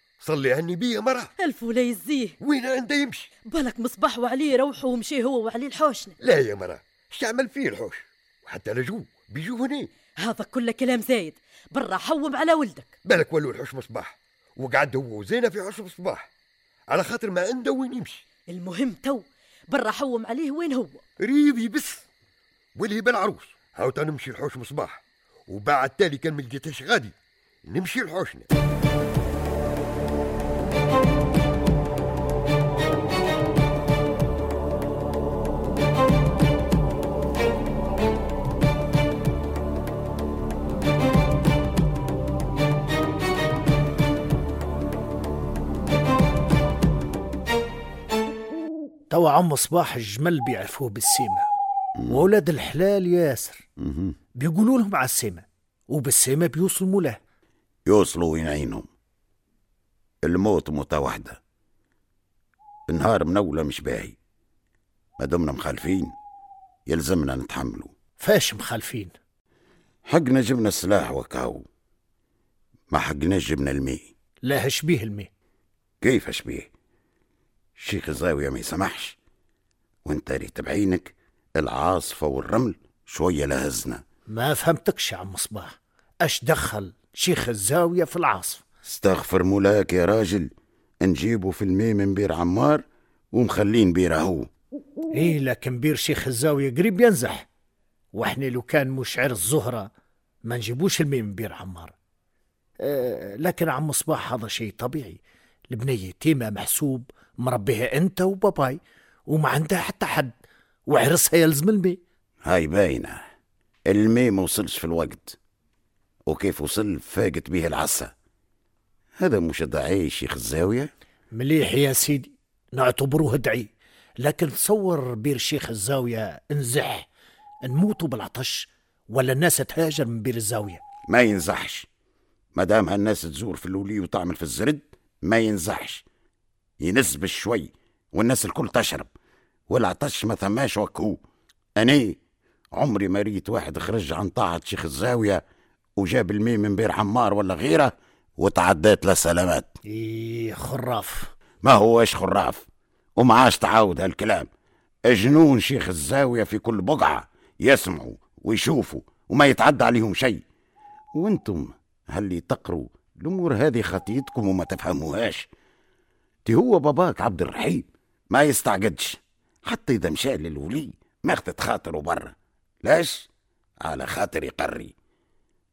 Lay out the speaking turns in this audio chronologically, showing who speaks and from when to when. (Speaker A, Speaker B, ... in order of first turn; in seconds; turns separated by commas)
Speaker A: 0.2-1.3, Speaker B: 1.4-2.4, Speaker A: 2.4-3.3, Speaker B: 3.5-6.1, Speaker A: 6.2-9.9, Speaker B: 10.2-12.9, Speaker A: 13.0-16.2, Speaker A: 16.9-18.2, Speaker B: 18.5-21.0, Speaker A: 21.2-22.0, Speaker A: 22.8-27.1, Speaker A: 27.6-28.5, Speaker C: 49.1-51.5, Speaker D: 52.0-52.2, Speaker C: 52.1-53.6, Speaker D: 53.8-54.1, Speaker C: 54.4-57.2, Speaker D: 57.9-58.9, Speaker D: 60.2-61.4, Speaker D: 62.9-64.2, Speaker D: 65.2-66.1, Speaker D: 66.9-67.9, Speaker C: 68.2-69.1, Speaker D: 70.1-71.6, Speaker D: 72.9-74.1, Speaker C: 74.4-75.3, Speaker D: 76.0-76.7, Speaker D: 77.8-79.2, Speaker D: 80.0-84.0, Speaker C: 84.3-88.6, Speaker D: 88.8-90.5, Speaker D: 91.0-94.5, Speaker C: 95.1-97.5, Speaker C: 98.1-99.9, Speaker C: 100.5-101.9, Speaker C: 102.8-110.3, Speaker C: 110.9-112.0, Speaker D: 112.4-113.2, Speaker D: 113.9-115.4, Speaker D: 116.3-118.1, Speaker D: 119.2-120.9, Speaker C: 121.3-127.1, Speaker C: 127.6-130.8, Speaker D: 131.1-131.9, Speaker D: 132.5-136.0, Speaker D: 136.8-139.1, Speaker D: 139.7-141.2, Speaker D: 141.8-142.2, Speaker D: 142.7-145.4, Speaker D: 146.0-149.7, Speaker C: 149.9-151.3, Speaker D: 151.6-152.7, Speaker D: 153.2-154.5, Speaker D: 155.1-160.4, Speaker D: 161.1-165.5, Speaker D: 166.4-173.3, Speaker D: 173.8-174.9